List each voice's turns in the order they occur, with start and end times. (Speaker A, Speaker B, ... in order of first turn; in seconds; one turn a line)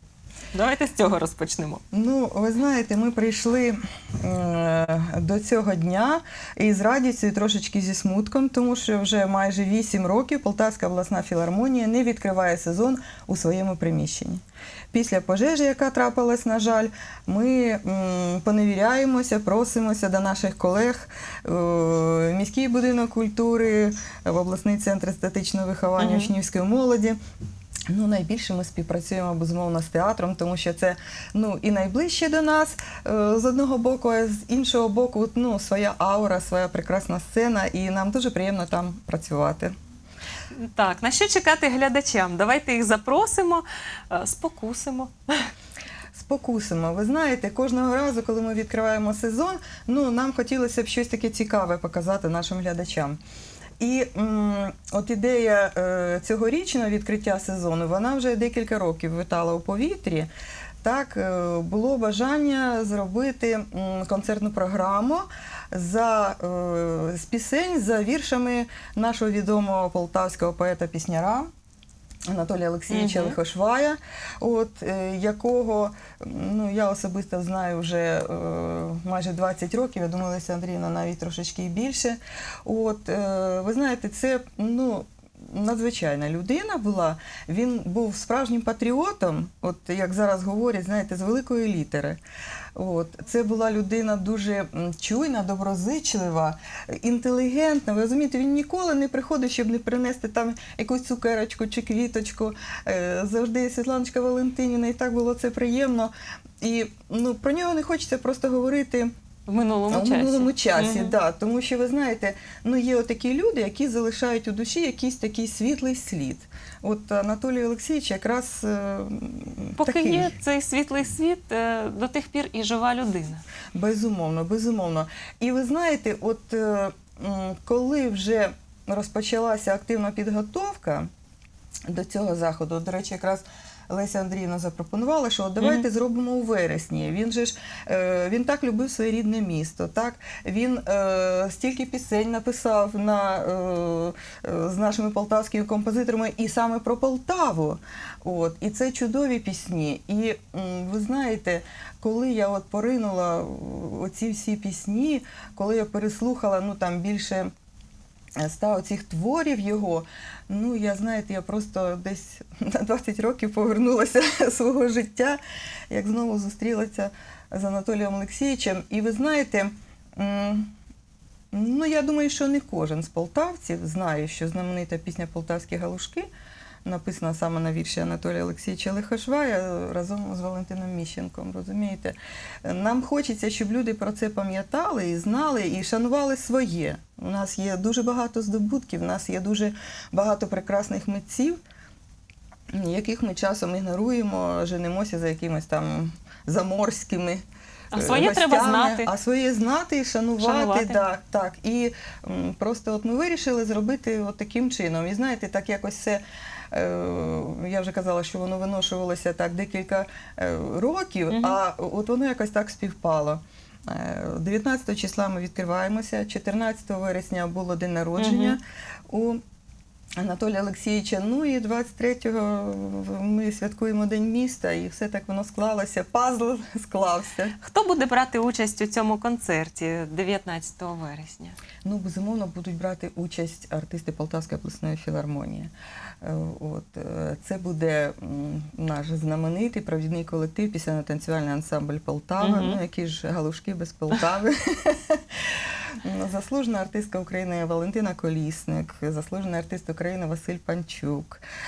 Speaker A: 0.5-1.8
Speaker B: 1.9-27.2
Speaker A: 26.0-26.3
Speaker B: 27.9-39.7
Speaker A: 40.5-45.5
Speaker B: 46.1-53.2
Speaker B: 53.8-60.3
Speaker B: 60.8-71.5
Speaker B: 72.3-92.2
Speaker A: 72.9-73.3
Speaker B: 92.7-109.1
Speaker A: 109.5-111.2
Speaker B: 109.9-120.3
Speaker A: 119.8-123.4
Speaker B: 123.7-131.1
Speaker B: 131.9-157.5
Speaker B: 158.4-165.4
Speaker B: 165.9-170.7
Speaker B: 171.5-176.3
Speaker B: 176.8-191.6
Speaker B: 192.7-197.4
Speaker A: 197.9-199.1
Speaker B: 197.9-219.4
Speaker A: 200.4-201.0
Speaker A: 211.3-211.6
Speaker A: 218.2-218.6
Speaker B: 220.2-227.6
Speaker A: 227.6-231.6
Speaker B: 231.8-235.7
Speaker B: 236.2-245.2
Speaker A: 242.4-242.8
Speaker B: 246.0-251.4